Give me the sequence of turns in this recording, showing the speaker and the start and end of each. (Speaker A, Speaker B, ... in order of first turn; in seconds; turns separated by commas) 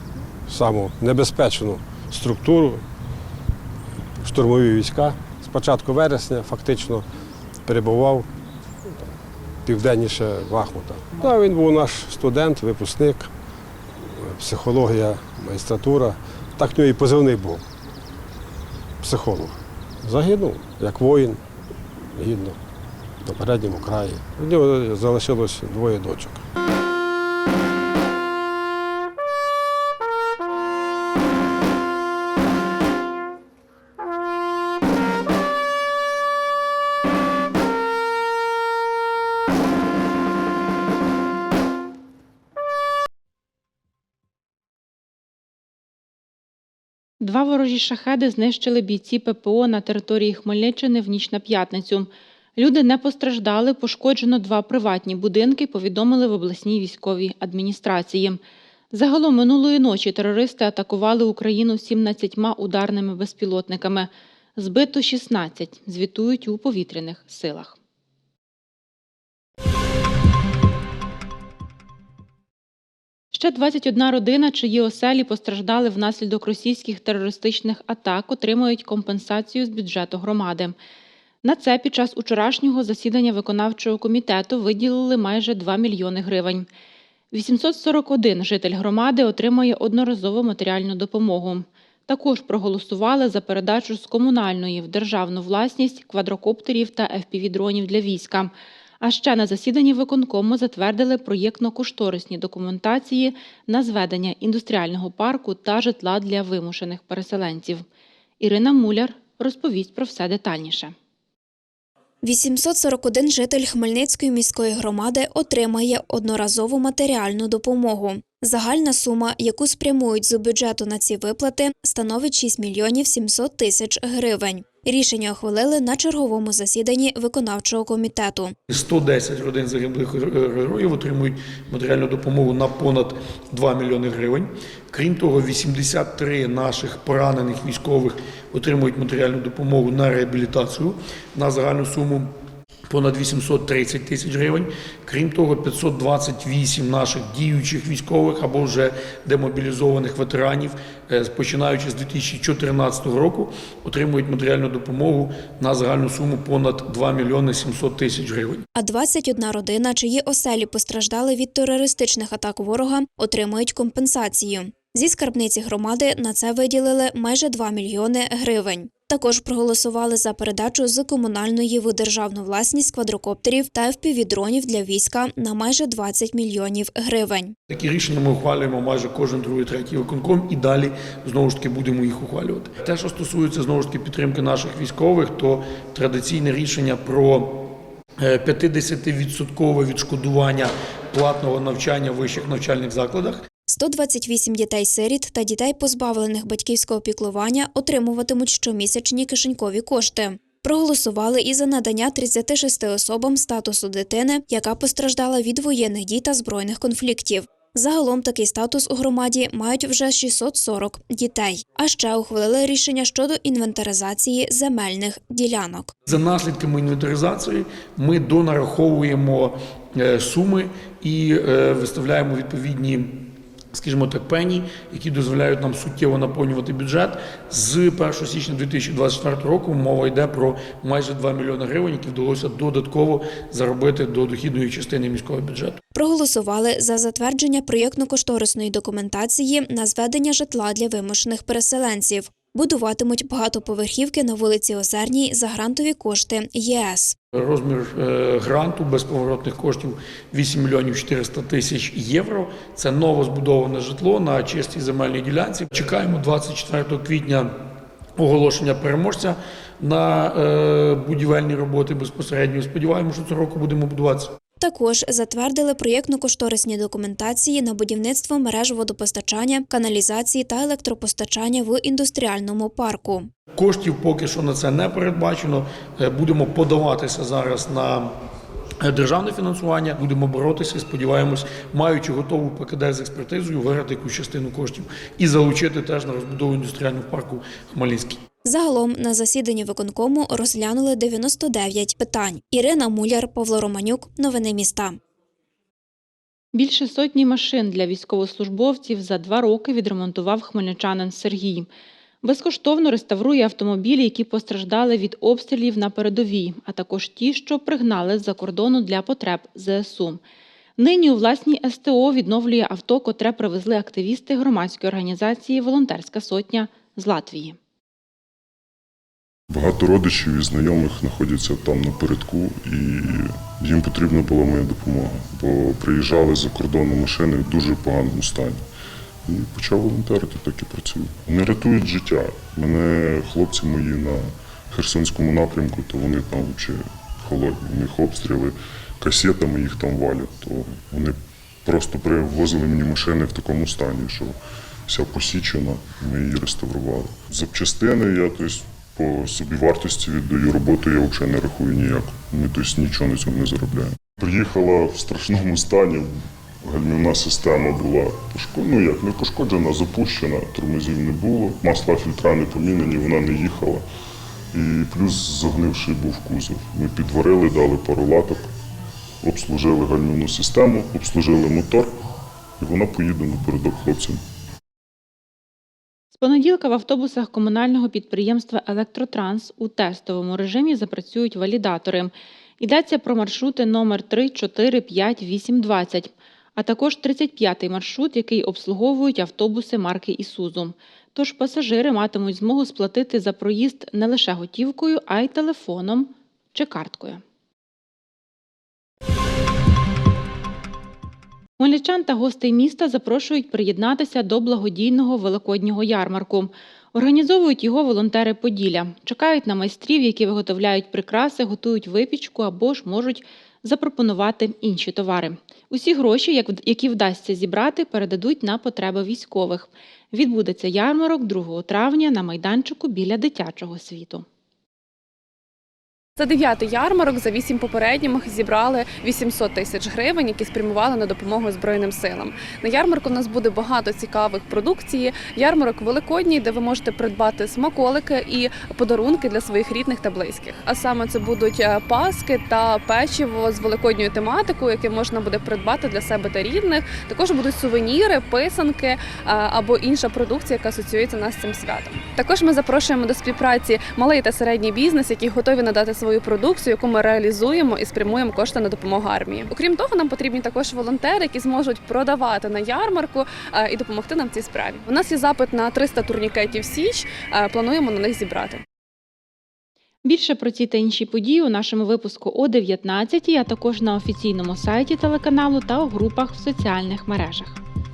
Speaker A: 0.5-2.8, Speaker A: 4.2-7.0, Speaker A: 7.7-8.3, Speaker A: 9.7-13.3, Speaker A: 14.1-17.6, Speaker A: 19.0-21.4, Speaker A: 22.0-22.6, Speaker A: 23.2-26.4, Speaker B: 47.2-58.4, Speaker B: 58.9-67.8, Speaker B: 73.3-80.8, Speaker B: 81.4-86.7, Speaker B: 87.3-107.8, Speaker B: 108.4-110.9, Speaker C: 112.2-128.5, Speaker D: 128.7-142.3, Speaker D: 142.9-158.7, Speaker C: 158.8-177.5, Speaker D: 177.7-187.7, Speaker D: 188.2-193.4, Speaker C: 193.7-215.9, Speaker D: 216.1-235.8, Speaker C: 235.9-247.2, Speaker D: 247.3-257.5, Speaker D: 258.2-264.3, Speaker C: 264.6-273.3, Speaker D: 273.5-278.1, Speaker D: 278.8-288.2, Speaker C: 288.4-295.0, Speaker B: 296.5-301.7, Speaker B: 302.2-310.2, Speaker B: 310.8-317.6, Speaker E: 319.5-328.6, Speaker E: 329.3-344.4, Speaker E: 344.9-356.1, Speaker E: 356.6-363.9, Speaker E: 364.5-368.5, Speaker E: 369.2-371.9, Speaker E: 372.6-374.2, Speaker B: 376.1-397.2, Speaker B: 401.6-424.2, Speaker F: 426.2-468.6, Speaker B: 470.0-477.6